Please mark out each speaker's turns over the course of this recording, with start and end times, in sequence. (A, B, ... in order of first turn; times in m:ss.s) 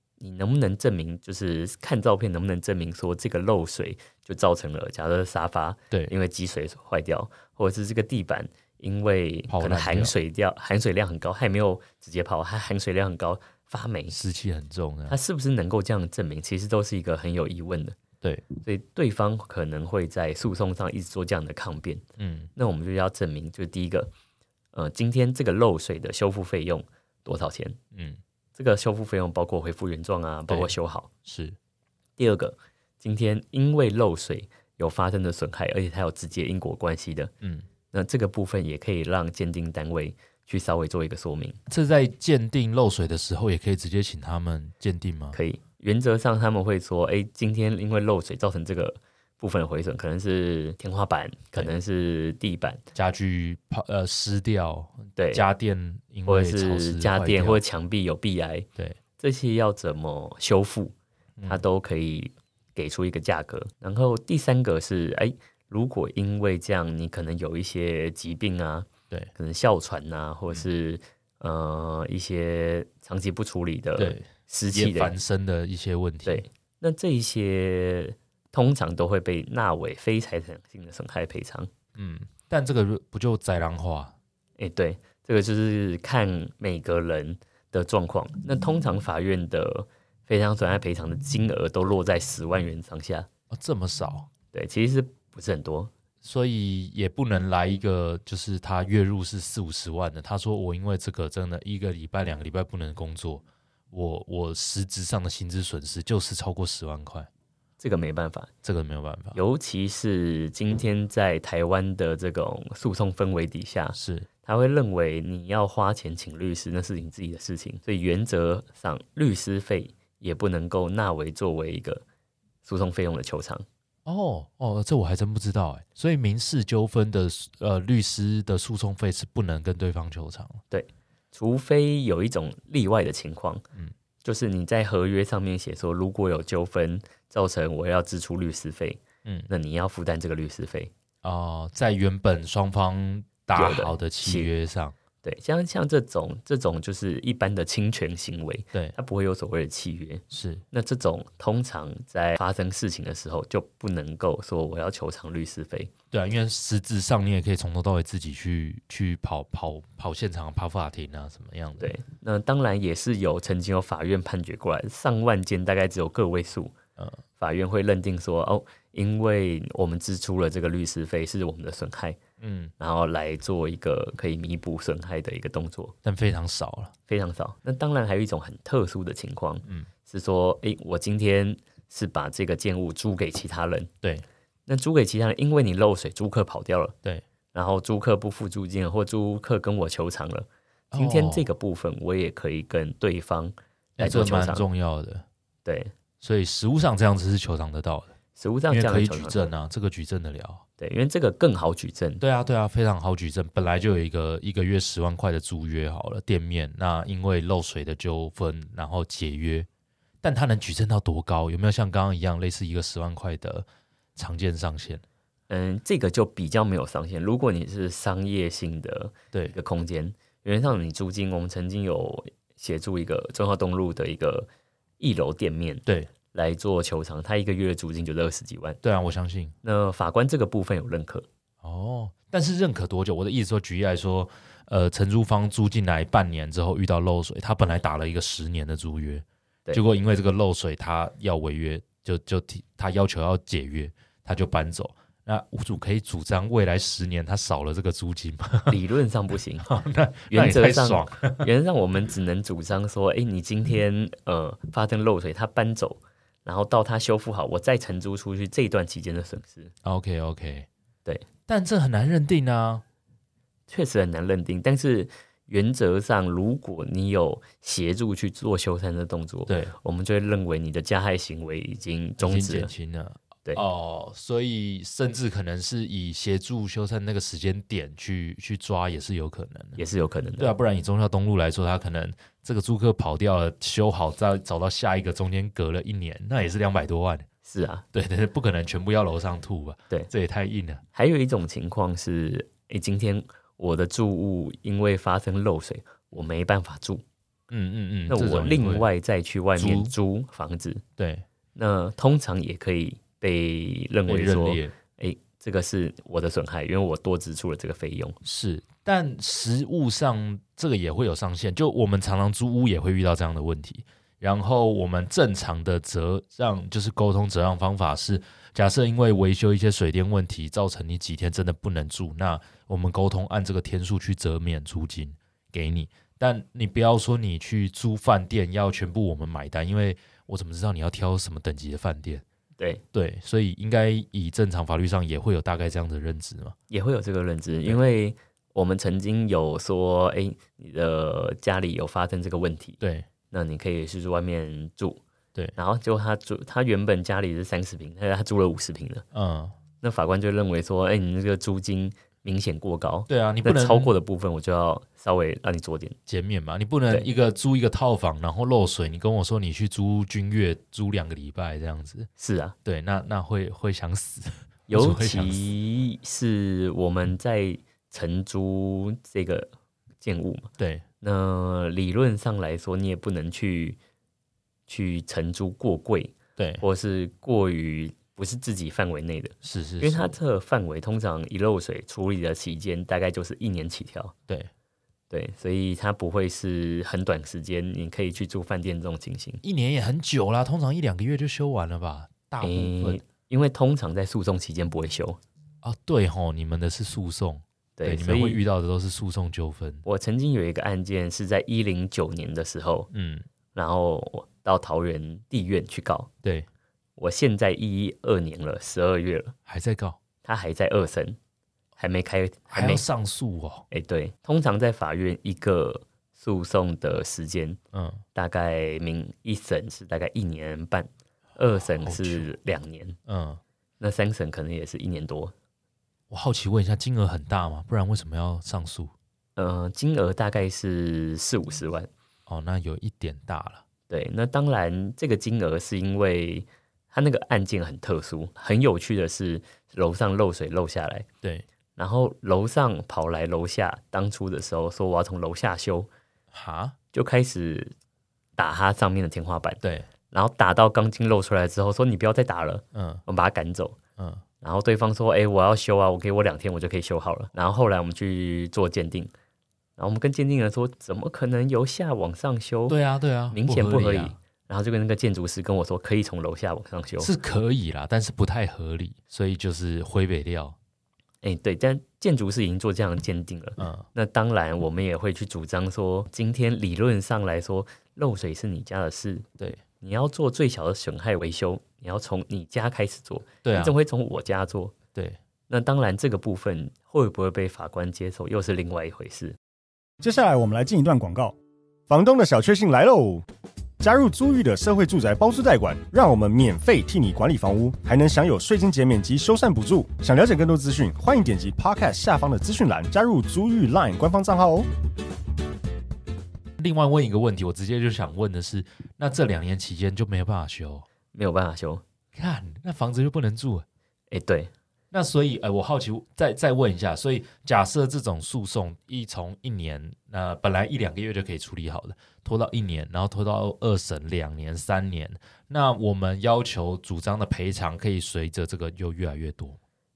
0:00.2-0:14.2 A
0:09.5-0:10.1 B
0:14.1-0:15.2 B
0:15.1-0:18.0 A
0:18.2-0:18.5 B
0:18.6-0:22.0 A
0:22.2-0:22.5 B
0:22.6-0:24.1 A
0:24.7-0:27.8 A
0:27.9-0:28.2 B
0:28.6-0:31.1 A
0:30.5-0:30.7 B
0:31.2-0:31.6 B
0:32.2-0:37.3 A
0:37.9-0:41.6 A
0:41.7-0:45.4 B
0:45.3-0:52.8 A
0:52.9-0:57.6 B
0:55.2-0:55.4 A
0:56.2-0:58.7 A
0:59.2-1:00.9 A
1:01.4-1:01.6 B
1:01.4-1:15.1 A
1:14.0-1:16.4 B
1:16.2-1:21.7 A
1:22.0-1:24.1 B
1:24.6-1:33.3 A
1:33.5-1:34.3 B
1:34.5-1:35.9 A
1:36.2-1:47.3 B
1:47.8-1:48.5 A
1:48.6-1:49.4 B
1:49.3-2:02.0 A
1:53.9-1:54.3 B
2:02.6-2:03.6 A
2:04.0-2:10.6 B
2:10.7-2:13.6 A
2:14.2-2:20.9 A
2:21.2-2:24.9 B
2:23.5-2:24.5 A
2:25.2-2:35.9 A
2:30.3-2:30.6 B
2:36.1-2:41.9 B
2:41.8-2:46.7 A
2:47.4-2:52.2 A
2:52.4-2:52.7 B
2:52.8-2:55.9 A
2:56.0-2:56.9 B
2:57.1-3:03.9 A
3:04.7-3:06.9 A
3:07.5-3:14.6 A
3:10.9-3:11.5 B
3:14.0-3:15.2 B
3:15.6-3:15.9 A
3:16.2-3:18.1 B
3:18.4-3:19.4 A
3:18.7-3:20.6 B
3:20.8-3:22.2 A
3:22.2-3:29.7 B
3:30.2-3:35.0 B
3:35.5-3:48.8 A
3:48.8-3:49.5 B
3:49.6-3:51.3 A
3:51.6-4:08.8 B
4:08.7-4:09.7 A
4:09.6-4:11.5 B
4:10.3-4:19.7 A
4:19.8-4:20.7 B
4:21.5-4:22.8 B
4:23.7-4:32.7 A
4:29.5-4:29.7 B
4:32.2-4:39.8 B
4:39.8-4:40.5 A
4:40.4-4:47.2 B
4:47.4-4:47.8 A
4:47.9-4:50.8 B
4:50.9-4:57.0 A
4:57.5-4:58.9 B
4:58.1-5:00.8 A
4:59.6-4:59.9 B
5:01.0-5:01.2 B
5:01.5-5:08.2 A
5:04.1-5:04.7 B
5:08.2-5:32.2 B
5:32.9-5:36.5 B
5:36.7-5:42.8 A
5:42.8-5:43.1 B
5:43.3-5:45.0 A
5:45.6-5:49.0 A
5:49.1-5:49.5 B
5:49.8-5:56.0 A
5:53.1-5:53.9 B
5:56.1-6:02.1 B
6:02.2-6:02.5 A
6:02.6-6:05.5 B
6:04.7-6:10.5 A
6:10.6-6:10.8 B
6:11.0-6:13.8 A
6:14.7-6:24.1 A
6:16.4-6:16.6 B
6:19.4-6:20.2 B
6:25.1-6:29.4 A
6:29.4-6:33.0 B
6:32.4-6:35.2 A
6:35.6-6:39.8 B
6:37.8-6:38.4 A
6:39.8-6:42.9 A
6:42.9-6:43.2 B
6:43.5-6:46.1 A
6:47.0-6:49.3 A
6:49.5-6:50.0 B
6:50.2-6:51.2 A
6:51.8-6:52.8 A
6:52.5-6:53.6 B
6:53.7-6:57.6 A
6:57.7-6:58.0 B
6:58.1-7:03.0 A
7:01.5-7:02.3 B
7:03.0-7:03.4 B
7:03.8-7:05.3 A
7:06.1-7:08.9 B
7:09.4-7:11.9 A
7:12.3-7:13.6 B
7:13.9-7:21.1 A
7:21.8-7:25.9 A
7:26.3-7:26.7 B
7:26.9-7:27.7 A
7:28.4-7:33.8 A
7:29.6-7:29.9 B
7:32.7-7:33.0 B
7:34.0-7:34.2 B
7:34.4-7:39.1 A
7:39.8-7:42.8 A
7:42.7-7:44.2 B
7:43.3-7:47.1 A
7:47.0-7:50.6 B
7:51.2-7:59.3 A
7:53.6-7:53.8 B
7:59.8-8:04.7 A
8:03.4-8:03.7 B
8:05.5-8:09.4 A
8:10.0-8:11.4 C
8:11.9-8:13.2 C
8:13.8-8:24.7 C
8:26.6-8:30.8 B
8:31.1-8:31.8 A
8:32.1-8:33.6 B
8:34.1-8:34.5 A
8:34.9-8:49.6 B